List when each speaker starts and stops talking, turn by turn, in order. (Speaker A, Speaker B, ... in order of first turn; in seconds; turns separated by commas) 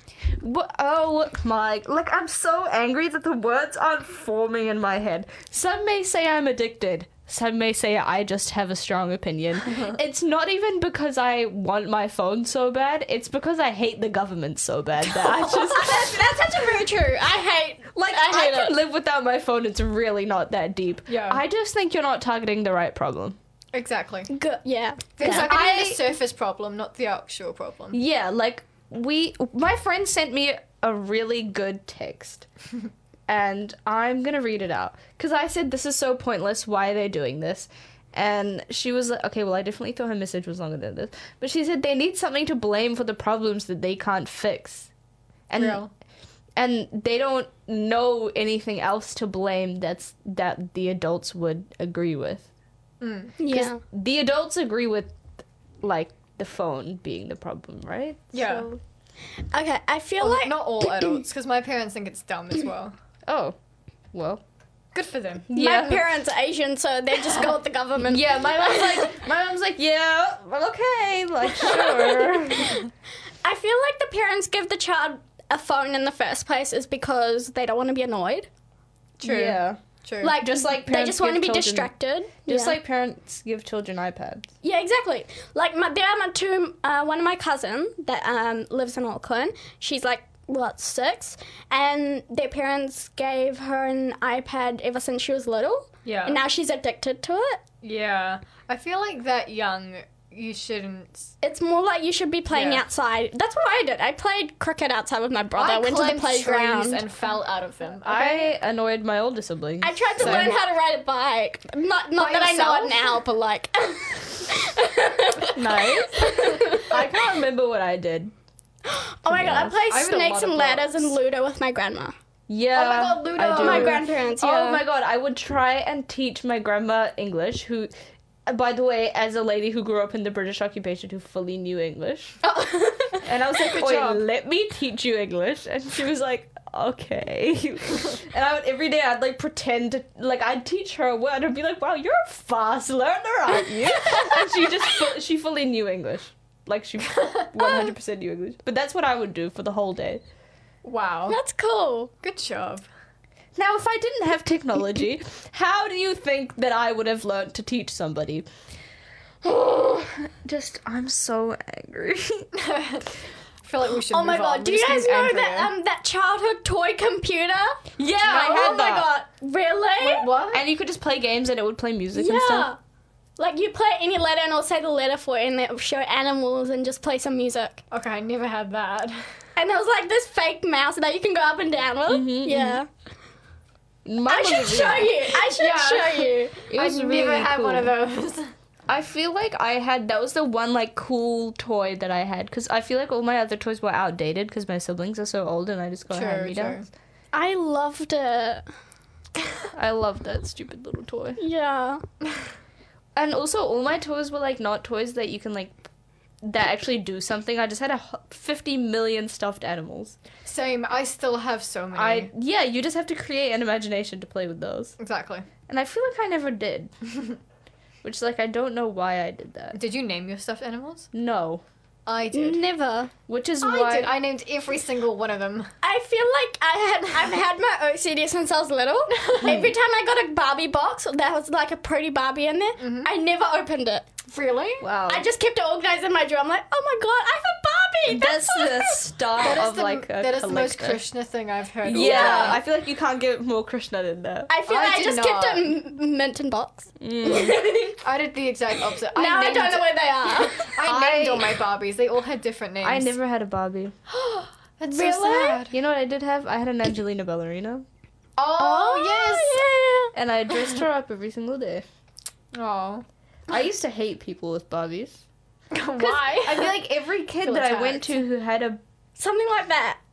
Speaker A: 0.4-16.5, Speaker B: 15.5-18.8, Speaker A: 17.9-23.4, Speaker C: 21.1-21.4, Speaker C: 23.7-24.3, Speaker B: 24.3-25.5, Speaker C: 25.2-28.0, Speaker A: 25.2-26.0, Speaker A: 27.9-32.5, Speaker A: 33.3-44.9, Speaker A: 45.5-45.8, Speaker C: 45.6-45.9, Speaker A: 46.6-52.5, Speaker C: 53.0-53.4, Speaker B: 53.4-53.8, Speaker A: 53.5-55.1, Speaker A: 55.8-58.8, Speaker C: 58.3-58.7, Speaker B: 59.5-61.2, Speaker C: 60.2-62.9, Speaker A: 63.3-63.5, Speaker A: 64.1-64.4, Speaker C: 64.9-65.5, Speaker A: 65.5-66.1, Speaker B: 65.5-69.1, Speaker A: 68.0-72.8, Speaker B: 71.7-72.8, Speaker B: 73.4-78.5, Speaker C: 79.2-80.3, Speaker A: 79.2-81.9, Speaker B: 80.2-82.8, Speaker A: 82.5-84.5, Speaker B: 84.6-97.6, Speaker C: 96.0-96.4, Speaker C: 97.8-101.3, Speaker B: 101.4-107.1, Speaker C: 102.5-102.8, Speaker C: 105.5-108.5, Speaker A: 108.0-110.5, Speaker B: 109.8-116.9, Speaker C: 110.2-110.6, Speaker C: 112.2-113.2, Speaker A: 115.5-118.3, Speaker B: 118.8-122.1, Speaker A: 119.2-119.8, Speaker C: 119.8-121.2, Speaker A: 122.5-127.9, Speaker C: 122.7-124.1, Speaker B: 123.5-124.8, Speaker A: 128.5-132.4, Speaker B: 132.4-133.2, Speaker A: 133.2-150.2, Speaker C: 133.6-134.2, Speaker C: 150.8-151.4, Speaker B: 151.3-152.1, Speaker C: 152.2-152.8, Speaker A: 153.6-158.4, Speaker A: 159.4-162.5, Speaker C: 162.5-163.1, Speaker C: 163.6-165.7, Speaker B: 164.1-170.3, Speaker A: 168.0-169.1, Speaker C: 170.0-170.6, Speaker A: 170.5-172.7, Speaker B: 172.1-172.8, Speaker B: 173.4-177.8, Speaker C: 177.9-179.2, Speaker B: 179.6-182.9, Speaker A: 182.1-182.8, Speaker A: 184.0-185.2, Speaker B: 184.3-186.7, Speaker C: 185.3-188.5, Speaker A: 186.7-187.9, Speaker A: 188.9-196.8, Speaker C: 196.1-196.9, Speaker B: 197.3-198.6, Speaker A: 199.7-201.4, Speaker B: 201.4-202.0, Speaker A: 203.2-205.8, Speaker A: 206.4-210.2, Speaker C: 210.4-212.3, Speaker A: 211.9-214.9, Speaker C: 215.0-215.5, Speaker A: 215.7-216.9, Speaker A: 218.0-219.8, Speaker C: 219.7-221.1, Speaker A: 221.1-221.6, Speaker C: 222.1-222.6, Speaker B: 222.3-223.1, Speaker A: 223.3-224.1, Speaker C: 223.6-225.7, Speaker B: 225.8-234.1, Speaker C: 229.1-229.5, Speaker A: 229.4-229.7, Speaker C: 232.8-233.1, Speaker C: 234.3-234.9, Speaker A: 234.8-235.3, Speaker B: 235.1-239.0, Speaker A: 238.1-241.0, Speaker C: 239.4-242.6, Speaker A: 241.8-244.5, Speaker B: 241.9-242.6, Speaker B: 244.5-248.0, Speaker C: 244.7-245.7, Speaker A: 247.0-247.6, Speaker C: 248.0-253.1, Speaker B: 249.1-250.7, Speaker A: 250.8-251.6, Speaker A: 252.8-253.9, Speaker C: 254.1-255.8, Speaker B: 254.9-255.6, Speaker A: 255.7-257.9, Speaker C: 258.4-259.6, Speaker B: 258.6-260.1, Speaker A: 260.1-261.8, Speaker C: 262.5-263.0, Speaker A: 263.5-265.2, Speaker C: 265.7-266.8, Speaker A: 266.0-268.8, Speaker C: 267.4-268.1, Speaker B: 269.2-270.0